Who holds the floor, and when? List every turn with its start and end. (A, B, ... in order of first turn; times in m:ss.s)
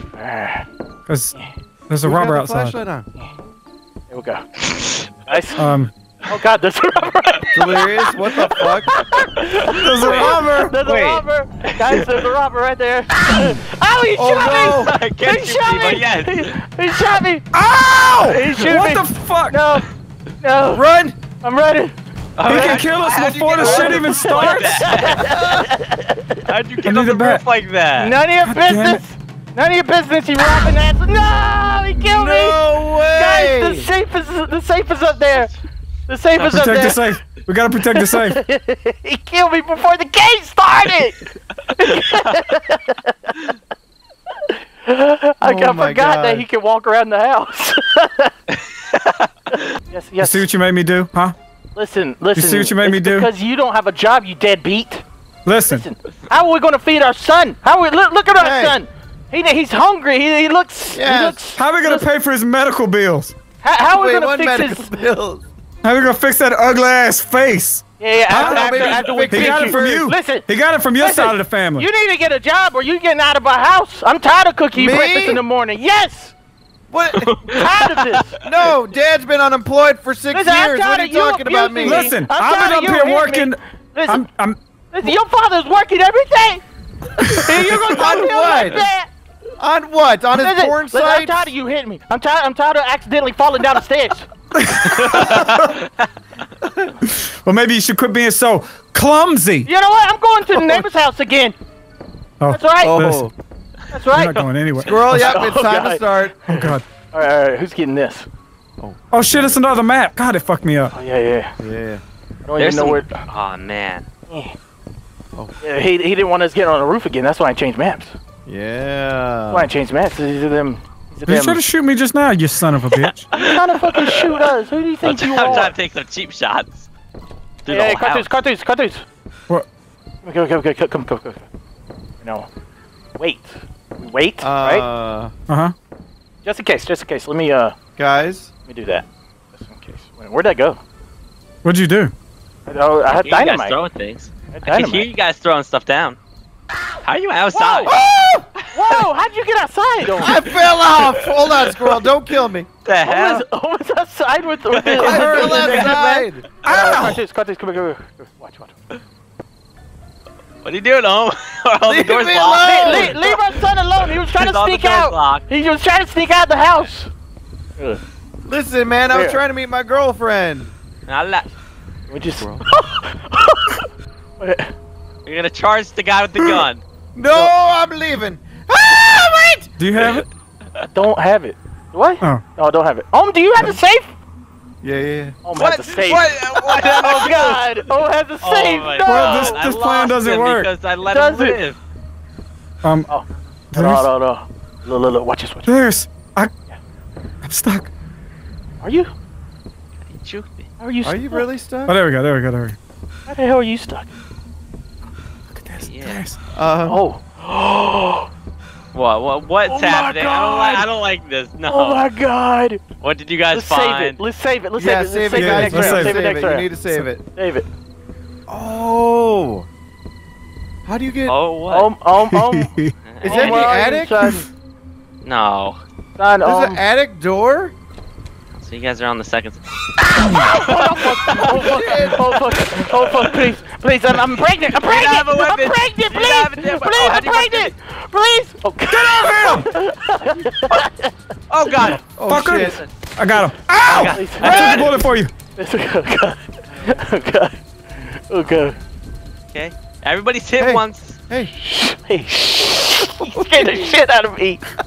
0:00.1-0:00.7 A
0:01.1-0:01.4 B
0:01.9-0:02.8 B
0:02.0-0:03.1 C
0:04.1-0:04.5 A
0:04.7-0:05.5 D
0:05.3-0:05.6 A
0:05.6-0:05.9 B
0:06.3-0:17.5 A
0:07.5-0:09.1 C
0:09.7-0:10.8 B
0:10.0-0:12.3 D
0:14.2-0:14.9 C
0:14.5-0:16.6 D
0:17.5-0:19.6 B
0:18.2-0:19.9 A
0:20.4-0:20.8 A
0:20.7-0:21.2 C
0:21.4-0:22.0 A
0:22.4-0:25.4 D
0:22.4-0:24.9 B
0:22.5-0:22.8 A
0:23.6-0:26.4 A
0:25.1-0:25.7 C
0:26.5-0:28.1 D
0:26.8-0:27.4 B
0:28.0-0:35.5 A
0:28.4-0:29.0 B
0:32.0-0:33.9 C
0:36.1-0:37.0 A
0:36.4-0:36.9 D
0:36.5-0:38.4 B
0:37.9-0:43.5 A
0:42.1-0:42.4 D
0:44.4-0:48.3 A
0:45.4-0:46.4 C
0:48.5-0:49.8 D
0:49.9-0:50.5 A
0:50.2-0:51.4 B
0:51.8-0:55.0 A
0:52.4-0:53.3 B
0:55.4-0:55.8 B
0:55.7-1:02.1 A
0:58.4-0:58.8 C
1:00.9-1:01.4 C
1:01.6-1:03.4 B
1:03.6-1:05.0 A
1:03.9-1:05.4 C
1:05.8-1:11.9 B
1:08.0-1:10.5 A
1:08.4-1:10.0 C
1:11.0-1:16.3 A
1:14.7-1:15.4 C
1:16.9-1:17.4 C
1:17.2-1:18.7 D
1:17.5-1:18.4 A
1:18.4-1:22.1 C
1:20.3-1:24.3 A
1:21.8-1:24.6 B
1:24.9-1:26.6 A
1:27.2-1:29.1 A
1:27.3-1:28.9 C
1:29.6-1:31.5 C
1:30.4-1:34.3 A
1:34.5-1:35.8 B
1:35.0-1:36.1 D
1:37.0-1:39.7 B
1:39.7-1:41.6 A
1:42.4-1:43.3 B
1:42.5-1:43.2 A
1:42.8-1:43.3 C
1:43.9-1:44.4 A
1:44.1-1:45.4 B
1:44.8-1:46.5 C
1:45.1-1:48.3 A
1:46.5-1:46.8 B
1:48.8-1:49.6 C
1:49.1-1:50.9 B
1:50.9-1:51.6 A
1:51.6-1:52.0 C
1:52.4-1:53.2 A
1:52.6-1:54.1 D
1:54.3-1:54.6 A
1:55.6-1:58.2 A
1:58.5-1:59.7 C
1:59.5-2:01.6 A
2:01.3-2:03.3 B
2:02.9-2:04.5 D
2:03.3-2:05.7 A
2:05.0-2:06.9 D
2:07.6-2:08.4 D
2:07.7-2:09.0 A
2:10.2-2:11.4 A
2:12.2-2:12.5 A
2:13.2-2:14.8 A
2:14.4-2:15.3 C
2:15.5-2:15.7 B
2:16.4-2:17.8 A
2:18.0-2:18.5 C
2:18.7-2:20.8 A
2:21.6-2:22.1 B
2:22.7-2:23.8 A
2:23.1-2:26.2 D
2:24.5-2:25.1 A
2:27.0-2:28.0 D
2:27.5-2:28.0 A
2:27.9-2:28.5 C
2:28.6-2:29.0 D
2:28.7-2:30.5 A
2:30.1-2:32.7 C
2:32.8-2:33.4 D
2:33.0-2:38.8 A
2:34.7-2:36.0 D
2:34.9-2:36.5 C
2:36.6-2:37.2 B
2:40.6-2:45.4 D
2:41.9-2:43.2 C
2:42.6-2:47.1 A
2:48.4-2:50.7 C
2:49.1-2:49.4 A
2:51.1-2:51.5 D
2:52.1-2:53.9 A
2:52.4-2:52.6 C
2:54.4-2:54.7 A
2:55.3-2:56.8 D
2:57.2-2:59.7 C
2:59.8-3:00.2 B
3:00.0-3:00.2 D
3:00.9-3:04.1 A
3:04.8-3:07.7 C
3:05.4-3:06.4 A
3:05.6-3:07.6 D
3:07.0-3:09.6 A
3:08.4-3:11.8 D
3:09.0-3:10.7 B
3:11.1-3:11.6 A
3:12.8-3:13.1 B
3:13.1-3:15.8 A
3:13.7-3:14.1 B
3:15.7-3:16.5 B
3:17.4-3:17.9 B
3:18.8-3:19.1 A
3:20.1-3:20.7 D
3:20.8-3:21.5 A
3:21.0-3:22.0 C
3:21.9-3:22.8 B
3:23.3-3:24.1 A
3:25.6-3:26.4 B
3:25.9-3:26.2 D
3:26.6-3:27.0 C
3:26.9-3:28.3 A
3:28.9-3:32.1 D
3:29.6-3:30.8 A
3:31.7-3:32.8 A
3:33.0-3:34.2 D
3:33.5-3:36.7 A
3:34.8-3:37.2 C
3:35.3-3:36.2 B
3:37.3-3:37.7 A
3:38.5-3:39.7 C
3:40.9-3:41.4 C
3:41.3-3:41.9 D
3:41.7-3:42.7 A
3:42.2-3:42.9 B
3:43.1-3:43.7 D
3:43.2-3:44.3 C
3:43.2-3:44.5 A
3:45.2-3:45.8 D
3:46.2-3:46.8 A
3:46.4-3:47.7 C
3:48.5-3:49.6 D
3:50.2-4:01.1 A
3:50.2-3:52.1 D
3:51.3-3:52.2 C
3:52.6-3:53.4 D
3:54.7-3:57.7 D
3:58.9-3:59.7 B
4:01.5-4:02.9 D
4:02.2-4:02.8 C
4:02.3-4:05.3 B
4:03.8-4:05.0 D
4:03.9-4:04.9 C
4:04.1-4:04.8 A
4:05.6-4:08.8 A
4:09.5-4:11.2 D
4:10.6-4:11.5 C
4:11.6-4:14.6 A
4:13.2-4:13.9 C